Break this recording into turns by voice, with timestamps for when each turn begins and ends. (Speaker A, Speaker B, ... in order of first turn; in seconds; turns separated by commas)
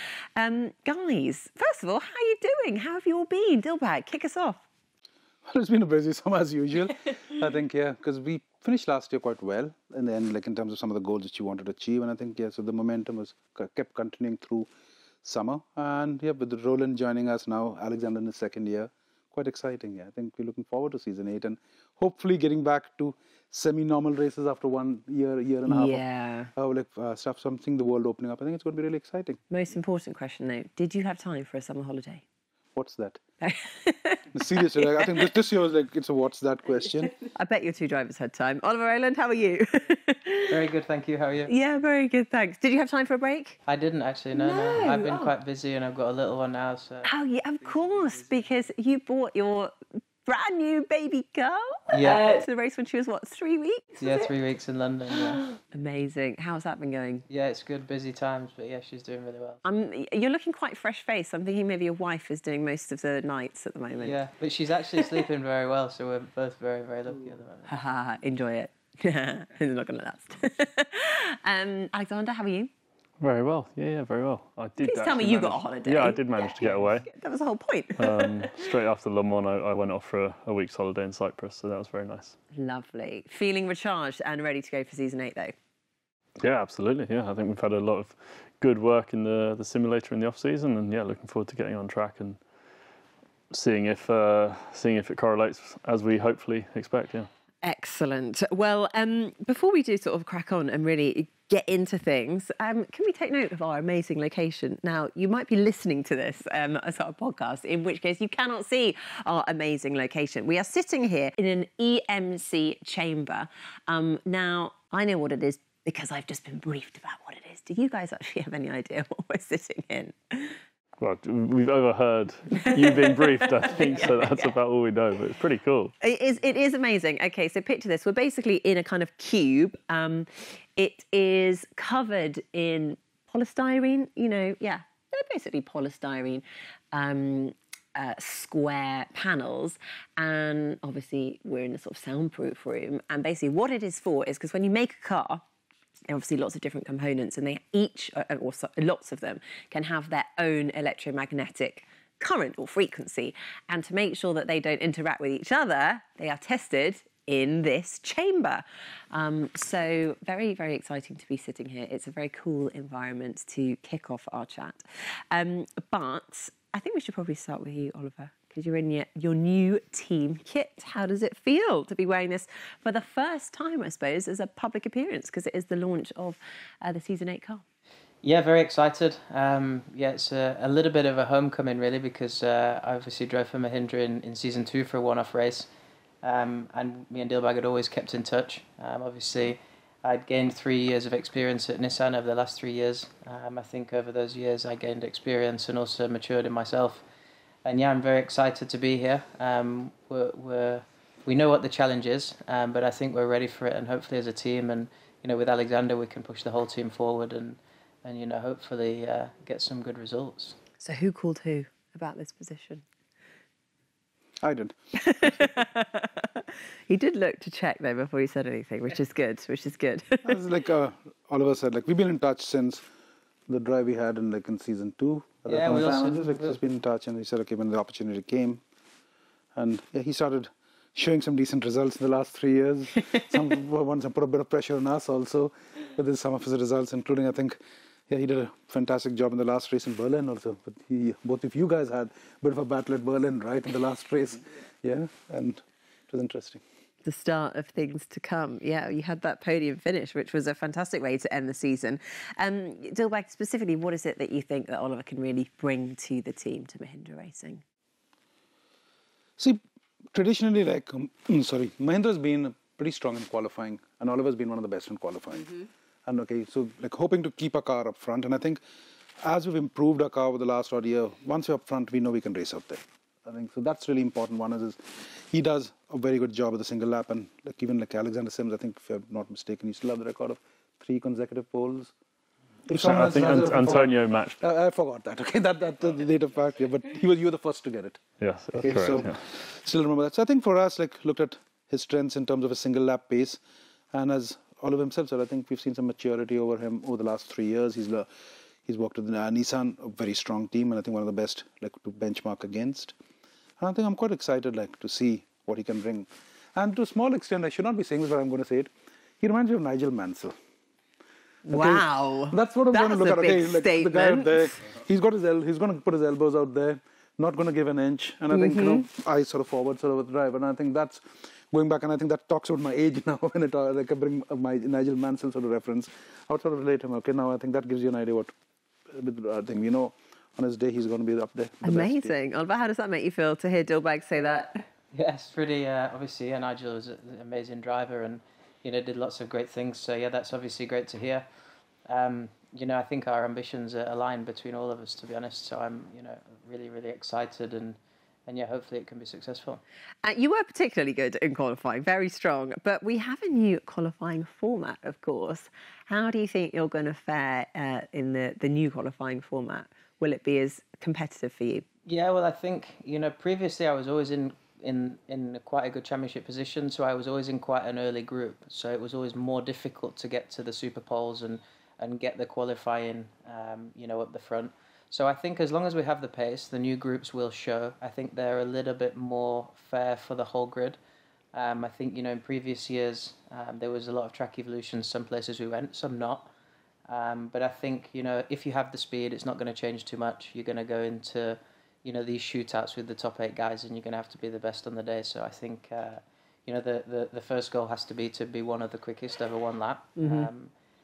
Speaker A: 0.3-4.6, Speaker B: 5.5-14.7, Speaker B: 15.2-26.0, Speaker A: 25.7-26.5, Speaker B: 26.5-29.4, Speaker A: 29.5-32.2, Speaker B: 32.7-33.2, Speaker A: 33.4-35.1, Speaker B: 34.3-37.1, Speaker A: 37.3-40.6, Speaker C: 40.5-41.5, Speaker A: 41.5-43.6, Speaker C: 43.6-47.1, Speaker A: 44.3-45.3, Speaker A: 47.0-49.7, Speaker A: 50.2-54.3, Speaker C: 51.9-52.3, Speaker C: 54.0-55.4, Speaker A: 55.2-57.2, Speaker C: 57.3-59.6, Speaker A: 59.6-64.2, Speaker C: 64.0-67.7, Speaker A: 65.0-65.2, Speaker A: 67.7-72.7, Speaker D: 73.2-77.0, Speaker A: 74.8-78.7, Speaker D: 78.0-82.4, Speaker A: 82.5-85.5, Speaker D: 86.4-92.4, Speaker D: 93.5-97.3, Speaker A: 97.6-120.6, Speaker D: 121.0-125.9, Speaker A: 122.5-124.5, Speaker A: 126.0-145.4, Speaker A: 146.1-177.6, Speaker C: 178.2-185.7, Speaker C: 186.2-197.0, Speaker C: 197.6-210.6, Speaker A: 210.8-212.8, Speaker B: 214.4-214.8, Speaker A: 214.9-220.4, Speaker B: 220.2-222.8, Speaker B: 223.5-228.6, Speaker C: 225.5-226.6, Speaker B: 229.5-237.6, Speaker B: 238.1-246.6, Speaker A: 247.0-257.6, Speaker B: 260.1-268.6, Speaker B: 269.2-281.9, Speaker B: 282.6-288.0, Speaker D: 282.7-284.4, Speaker D: 288.2-289.2, Speaker B: 288.6-293.4, Speaker B: 293.9-298.1, Speaker B: 298.6-302.9, Speaker B: 303.6-310.3, Speaker A: 311.4-314.5, Speaker B: 311.5-328.3, Speaker A: 318.3-318.9, Speaker B: 328.9-332.1, Speaker A: 331.6-334.6, Speaker C: 334.9-341.2, Speaker C: 341.9-349.6, Speaker A: 350.0-361.6, Speaker C: 361.9-380.8, Speaker C: 381.3-386.3, Speaker C: 386.9-400.5, Speaker A: 400.0-400.3